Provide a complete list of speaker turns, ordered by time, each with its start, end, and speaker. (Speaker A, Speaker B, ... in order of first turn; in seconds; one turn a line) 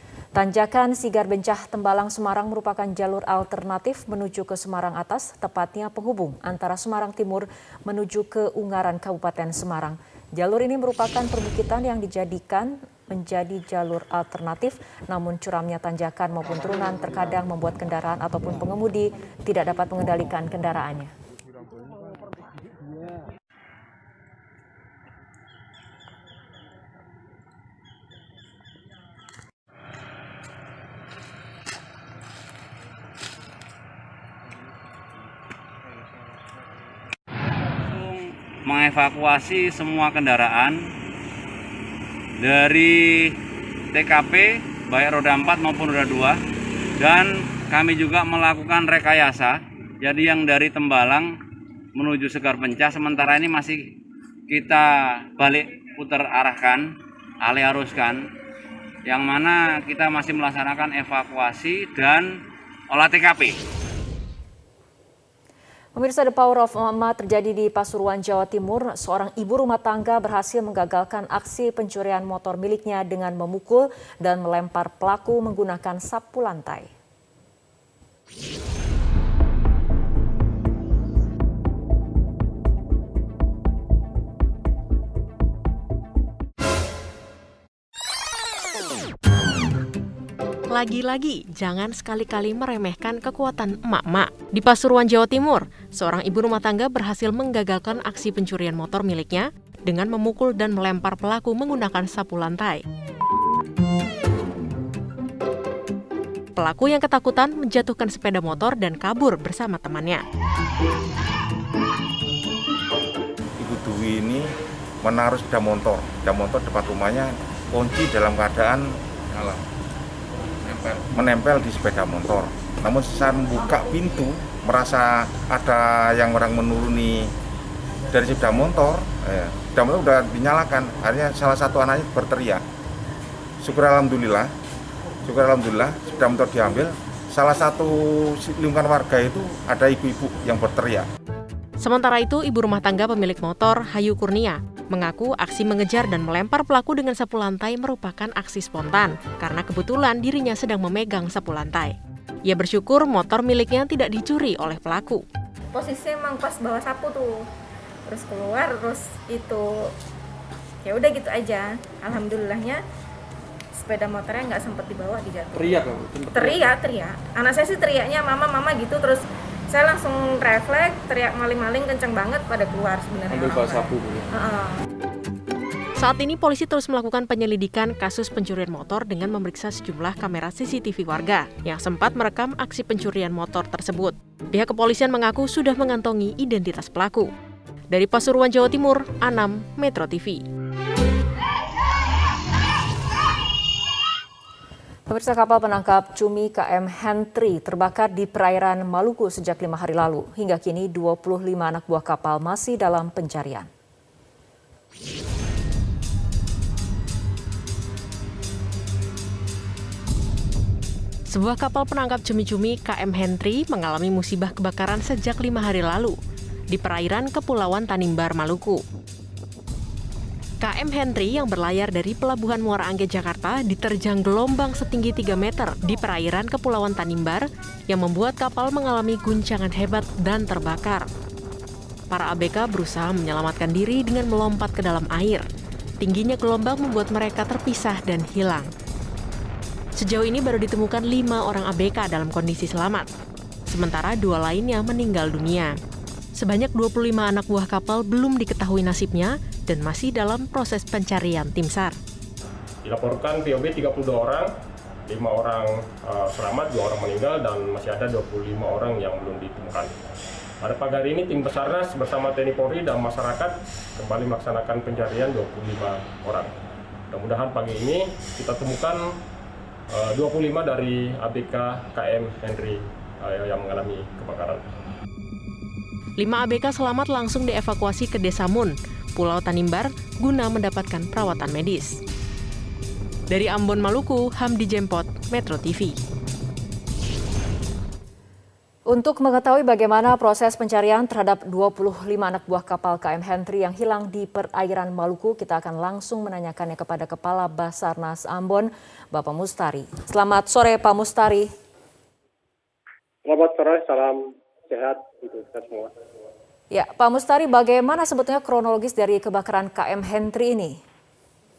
Speaker A: 0.3-21.1
Speaker B: 37.8-40.9
Speaker B: 42.4-43.4
Speaker B: 43.9-46.4
Speaker B: 47.0-51.4
Speaker B: 51.9-53.9
Speaker B: 54.5-58.3
Speaker B: 59.0-63.6
Speaker A: 65.9-76.9
Speaker C: 90.7-102.8
Speaker C: 106.6-110.2
Speaker D: 113.6-114.5
Speaker D: 115.0-119.6
Speaker D: 120.6-127.3
Speaker D: 128.1-132.6
Speaker D: 133.6-134.5
Speaker D: 135.2-141.1
Speaker C: 141.8-151.9
Speaker C: 152.5-155.2
Speaker E: 155.7-157.4
Speaker E: 158.1-159.9
Speaker E: 160.8-162.8
Speaker E: 163.8-174.8
Speaker C: 176.0-187.3
Speaker C: 187.9-190.4
Speaker A: 195.1-203.7
Speaker C: 211.3-216.2
Speaker C: 216.7-218.8
Speaker C: 220.6-231.1
Speaker C: 232.1-235.4
Speaker C: 236.0-238.7
Speaker C: 240.0-243.1
Speaker C: 243.7-245.8
Speaker C: 246.4-251.9
Speaker F: 252.8-254.5
Speaker F: 255.1-259.9
Speaker F: 260.6-266.6
Speaker F: 267.1-269.1
Speaker F: 269.9-274.6
Speaker C: 276.2-282.0
Speaker C: 283.3-286.0
Speaker A: 288.9-301.5
Speaker G: 303.2-305.9
Speaker A: 306.7-310.8